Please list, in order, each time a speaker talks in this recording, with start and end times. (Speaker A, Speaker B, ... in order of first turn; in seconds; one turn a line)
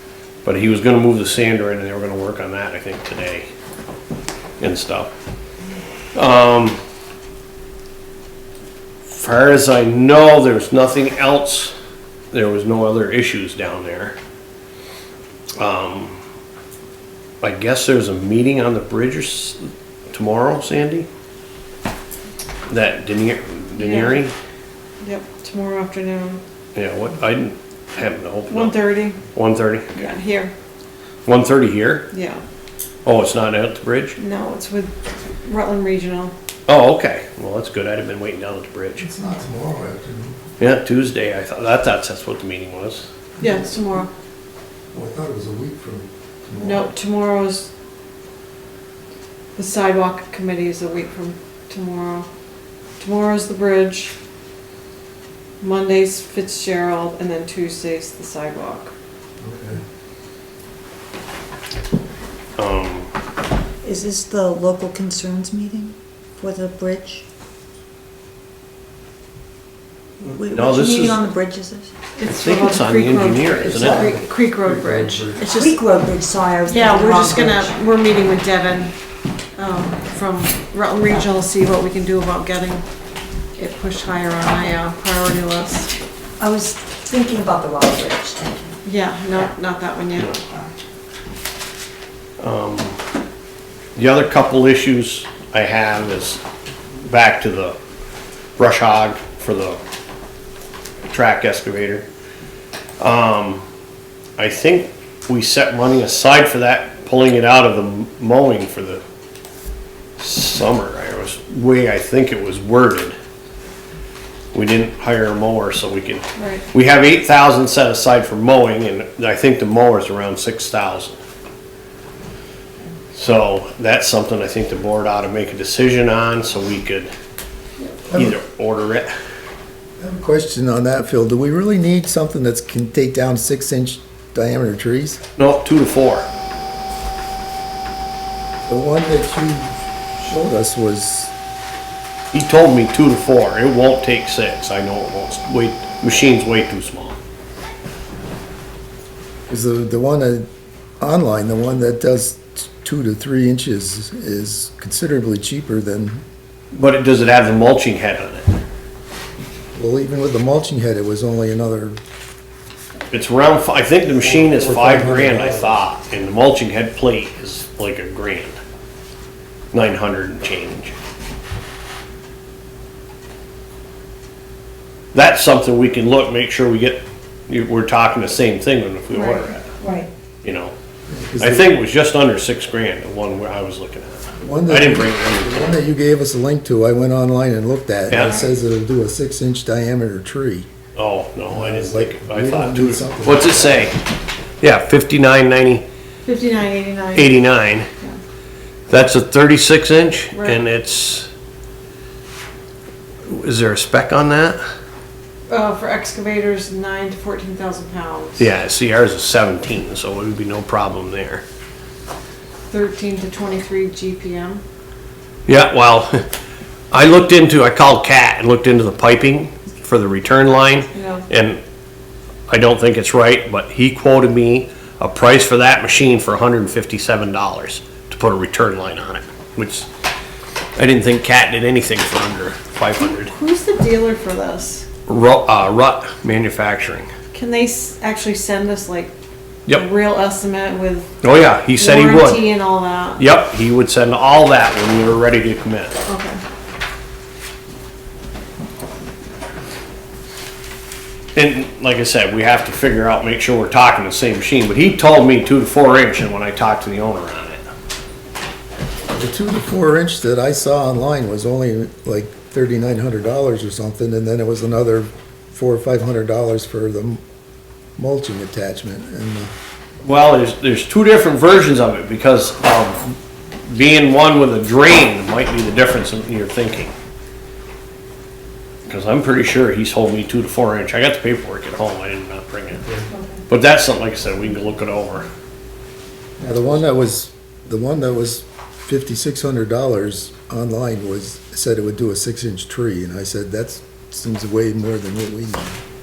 Speaker A: 0.4-3.5
Speaker A: 4.6-5.1
Speaker A: 6.2-6.8
Speaker A: 9.1-11.8
Speaker A: 12.3-14.2
Speaker A: 15.6-16.2
Speaker A: 17.4-21.1
Speaker A: 22.7-24.3
Speaker B: 23.8-24.2
Speaker B: 25.0-26.4
Speaker A: 26.8-30.0
Speaker B: 28.5-29.2
Speaker B: 29.9-30.5
Speaker A: 31.2-32.1
Speaker B: 32.1-32.4
Speaker A: 33.0-34.2
Speaker B: 34.2-36.3
Speaker A: 36.7-39.1
Speaker C: 39.0-40.4
Speaker A: 40.6-43.1
Speaker C: 43.4-43.8
Speaker B: 43.4-44.1
Speaker C: 44.9-46.9
Speaker B: 46.6-47.7
Speaker B: 49.6-52.3
Speaker B: 53.0-54.1
Speaker B: 55.6-58.9
Speaker C: 59.4-59.8
Speaker A: 62.6-63.1
Speaker D: 63.8-67.2
Speaker A: 70.2-71.2
Speaker D: 70.2-71.9
Speaker B: 72.2-75.6
Speaker A: 72.2-74.1
Speaker C: 73.6-75.5
Speaker D: 73.8-74.2
Speaker D: 75.4-77.8
Speaker B: 76.7-78.9
Speaker B: 79.6-82.8
Speaker B: 83.6-85.9
Speaker D: 86.4-88.8
Speaker B: 88.8-90.4
Speaker A: 92.4-93.0
Speaker A: 94.0-96.4
Speaker A: 97.0-97.8
Speaker A: 98.6-99.8
Speaker A: 101.1-102.0
Speaker A: 103.0-103.6
Speaker A: 104.4-109.0
Speaker A: 110.2-113.2
Speaker A: 114.5-121.2
Speaker B: 116.4-116.7
Speaker A: 123.1-127.1
Speaker C: 128.1-128.4
Speaker A: 128.1-129.1
Speaker C: 130.0-135.2
Speaker A: 135.4-136.3
Speaker C: 138.7-141.3
Speaker A: 142.3-147.2
Speaker C: 149.5-150.5
Speaker C: 151.0-156.2
Speaker A: 156.7-158.6
Speaker C: 159.8-162.0
Speaker A: 163.1-168.6
Speaker C: 164.2-165.8
Speaker A: 169.7-170.9
Speaker A: 175.1-179.7
Speaker B: 179.1-179.5
Speaker D: 179.8-180.1
Speaker A: 180.4-180.7
Speaker C: 181.1-181.8
Speaker A: 181.4-185.8
Speaker C: 184.4-190.7
Speaker A: 188.1-188.4
Speaker A: 190.9-194.0
Speaker C: 191.5-193.9
Speaker A: 194.6-195.8
Speaker B: 196.3-197.4
Speaker A: 197.1-197.9
Speaker A: 198.9-201.3
Speaker B: 200.3-200.6
Speaker A: 203.3-204.6
Speaker B: 205.5-208.5
Speaker A: 208.4-211.4
Speaker B: 212.7-214.6
Speaker A: 215.5-216.2
Speaker A: 216.9-221.6
Speaker B: 220.9-221.3
Speaker A: 222.5-229.9
Speaker A: 230.8-233.3
Speaker B: 233.0-234.8
Speaker A: 235.1-237.1
Speaker B: 237.3-239.1
Speaker B: 239.7-241.1
Speaker A: 241.2-242.5
Speaker B: 241.8-243.3
Speaker A: 243.2-246.0
Speaker B: 246.1-246.4
Speaker A: 251.3-257.6
Speaker C: 259.1-267.2
Speaker C: 268.0-269.5
Speaker A: 270.0-273.1
Speaker A: 273.7-276.9
Speaker A: 278.9-282.9
Speaker A: 283.5-285.3
Speaker C: 286.4-295.8